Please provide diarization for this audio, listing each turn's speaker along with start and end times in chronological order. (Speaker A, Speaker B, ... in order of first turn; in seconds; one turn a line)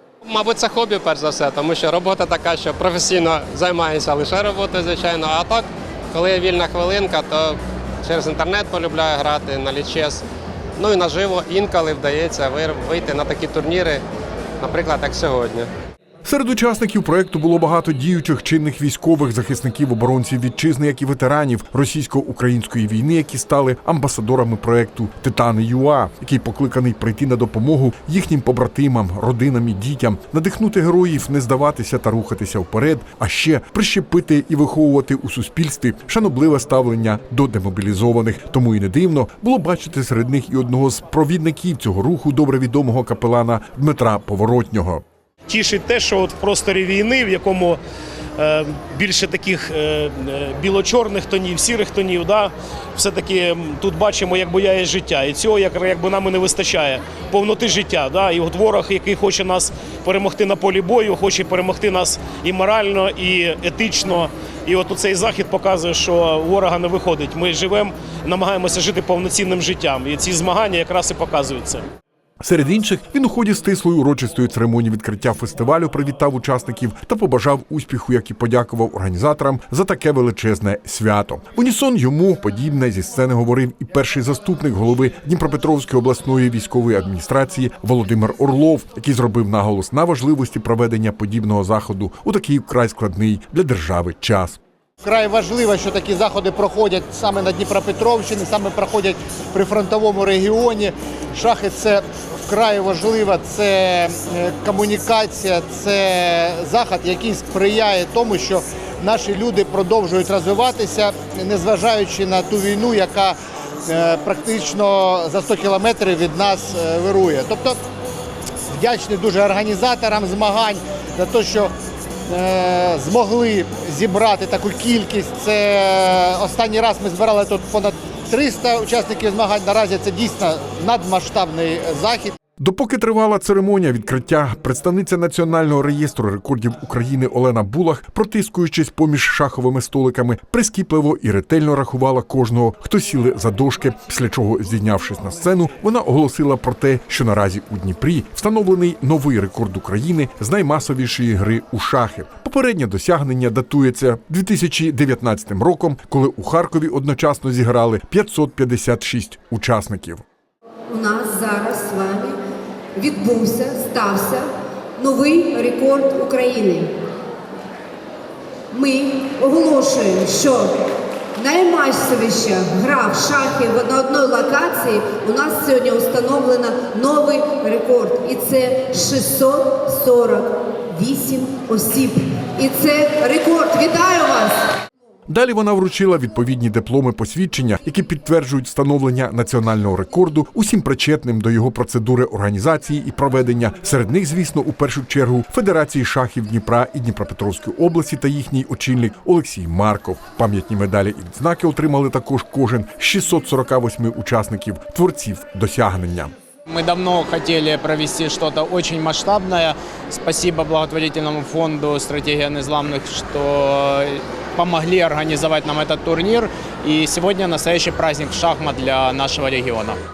Speaker A: 0.2-10.2
Speaker A: 10.8-14.0
Speaker A: 14.6-15.7
Speaker B: 16.2-45.0
Speaker C: 45.5-47.8
Speaker C: 48.4-71.8
Speaker B: 72.4-94.6
Speaker D: 95.0-117.8
Speaker D: 118.7-121.7
Speaker D: 122.3-132.3
Speaker B: 132.6-160.2
Speaker E: 160.9-162.3
Speaker E: 163.0-166.9
Speaker E: 168.7-170.7
Speaker E: 171.3-184.7
Speaker B: 185.3-206.3
Speaker F: 206.7-220.0